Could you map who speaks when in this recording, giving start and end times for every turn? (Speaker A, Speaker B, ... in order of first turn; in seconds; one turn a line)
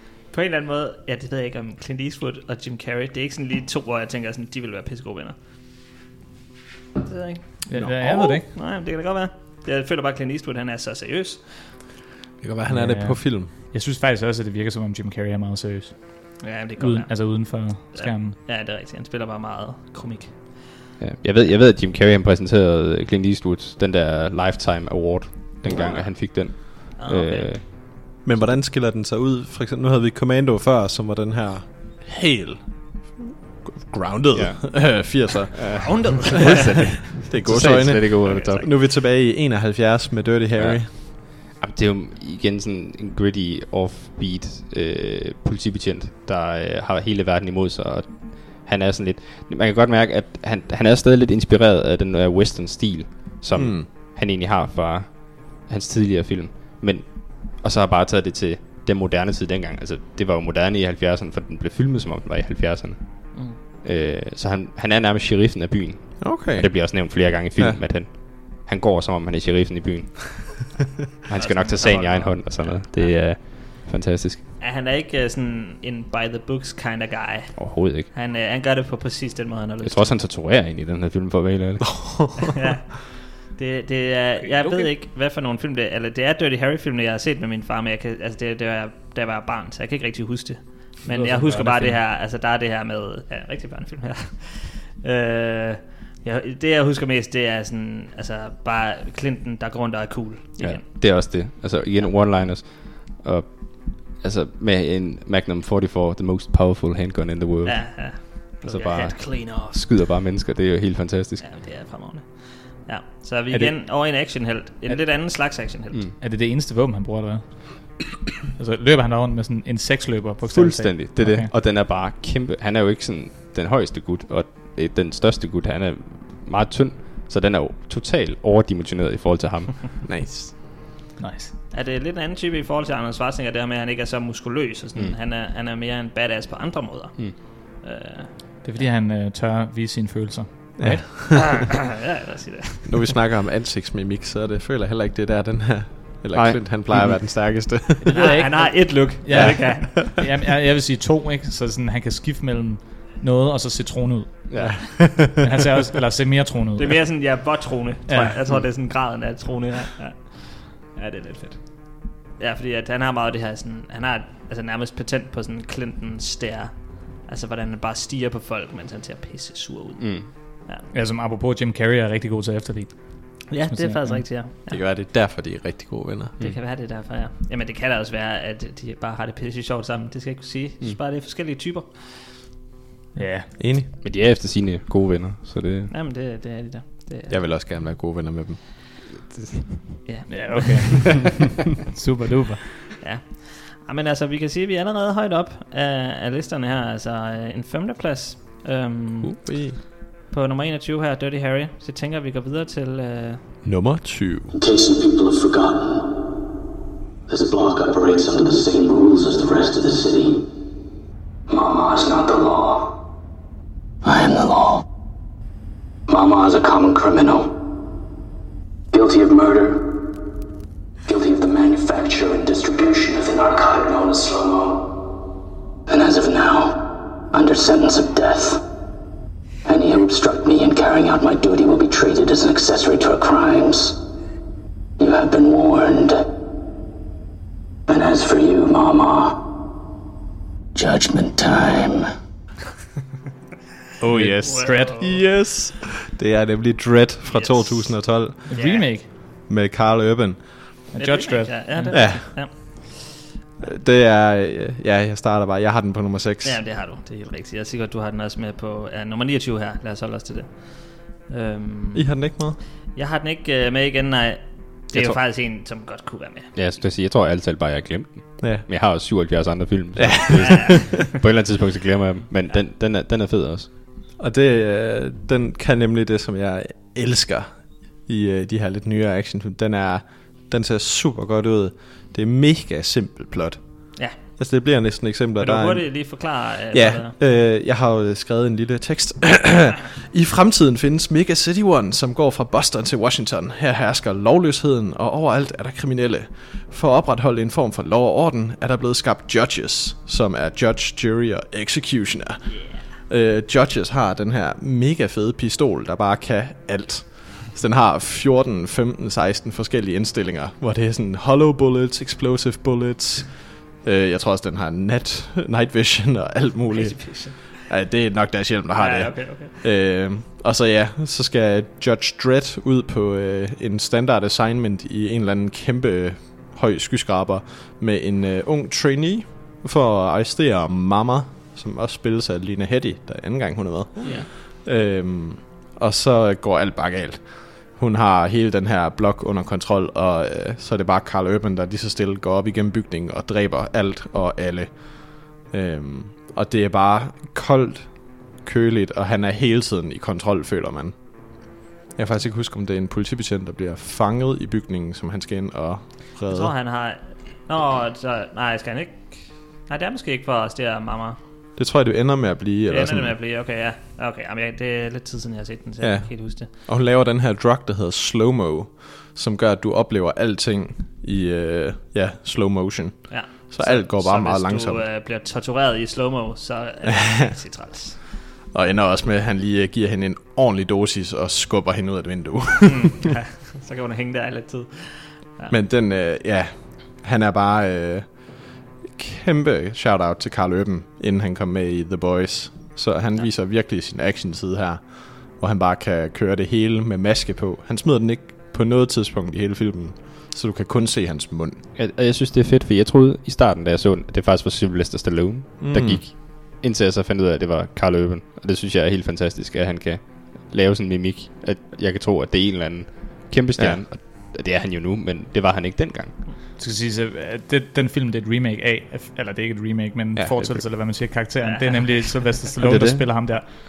Speaker A: 0.3-5.3
Speaker A: 7.0-11.8
Speaker B: 7.7-8.5
Speaker C: 12.4-13.5
Speaker B: 12.7-18.4
Speaker A: 16.4-20.6
Speaker D: 21.0-27.7
Speaker A: 25.7-27.7
Speaker C: 28.2-41.0
Speaker D: 34.3-38.6
Speaker A: 35.7-37.0
Speaker A: 38.2-38.7
Speaker D: 40.5-70.8
Speaker C: 53.5-53.9
Speaker C: 66.2-67.9
Speaker D: 71.3-74.4
Speaker A: 71.3-73.5
Speaker A: 74.6-80.2
Speaker D: 77.5-78.1
Speaker D: 79.8-82.4
Speaker C: 81.9-82.2
Speaker A: 82.5-101.3
Speaker B: 84.4-84.9
Speaker B: 91.1-92.0
Speaker D: 100.6-111.4
Speaker A: 107.6-109.9
Speaker A: 111.4-116.1
Speaker D: 114.9-116.1
Speaker B: 116.2-118.0
Speaker B: 118.5-121.5
Speaker D: 120.5-130.0
Speaker C: 130.0-130.5
Speaker B: 131.2-131.5
Speaker A: 131.7-138.8
Speaker B: 138.6-141.5
Speaker C: 140.8-141.6
Speaker A: 141.6-143.1
Speaker C: 142.8-150.1
Speaker D: 146.3-147.2
Speaker B: 148.0-157.2
Speaker A: 148.1-150.0
Speaker D: 154.5-154.9
Speaker C: 154.5-155.7
Speaker A: 156.8-170.8
Speaker B: 158.1-158.4
Speaker D: 170.0-170.3
Speaker B: 170.9-174.4
Speaker A: 173.5-174.8
Speaker C: 174.7-176.3
Speaker A: 176.4-182.3
Speaker B: 183.1-183.5
Speaker C: 183.6-183.9
Speaker D: 184.0-185.9
Speaker A: 185.9-187.7
Speaker C: 187.3-188.6
Speaker D: 189.3-190.0
Speaker A: 190.0-191.1
Speaker B: 190.3-191.3
Speaker B: 191.9-192.6
Speaker A: 193.0-203.4
Speaker C: 199.2-199.8
Speaker C: 203.6-204.5
Speaker E: 204.5-206.4
Speaker E: 207.3-210.5
Speaker E: 211.5-213.0
Speaker E: 214.0-214.8
Speaker E: 216.1-217.8
Speaker E: 218.9-220.3
Speaker E: 221.0-225.0
Speaker E: 225.9-228.6
Speaker E: 229.6-234.0
Speaker E: 235.0-236.2
Speaker E: 237.9-239.6
Speaker E: 240.7-242.1
Speaker B: 244.0-245.0
Speaker C: 244.0-248.9
Speaker A: 244.3-245.2
Speaker A: 247.3-248.9
Speaker B: 248.5-249.1
Speaker C: 249.5-250.8
Speaker B: 250.9-252.4
Speaker A: 250.9-253.1
Speaker C: 251.9-252.4
Speaker C: 253.6-256.6
Speaker A: 256.4-266.5
Speaker C: 261.9-262.6
Speaker D: 264.9-265.2
Speaker D: 266.5-273.7
Speaker C: 268.4-268.7
Speaker C: 269.9-270.9
Speaker A: 270.3-271.0
Speaker C: 274.2-356.5
Speaker A: 285.4-287.1
Speaker A: 316.7-317.7
Speaker A: 318.7-319.6
Speaker A: 334.0-334.3
Speaker A: 356.2-361.2
Speaker C: 361.6-363.1
Speaker A: 362.7-366.5
Speaker C: 365.8-374.9
Speaker A: 373.1-378.0
Speaker C: 376.9-377.3
Speaker C: 378.5-383.0
Speaker A: 382.6-385.5
Speaker C: 385.5-401.6
Speaker D: 401.7-416.2
Speaker C: 405.6-406.0
Speaker C: 413.6-413.9
Speaker B: 416.6-423.5
Speaker C: 420.2-420.5
Speaker D: 420.3-420.6
Speaker A: 421.4-422.4
Speaker D: 422.6-423.1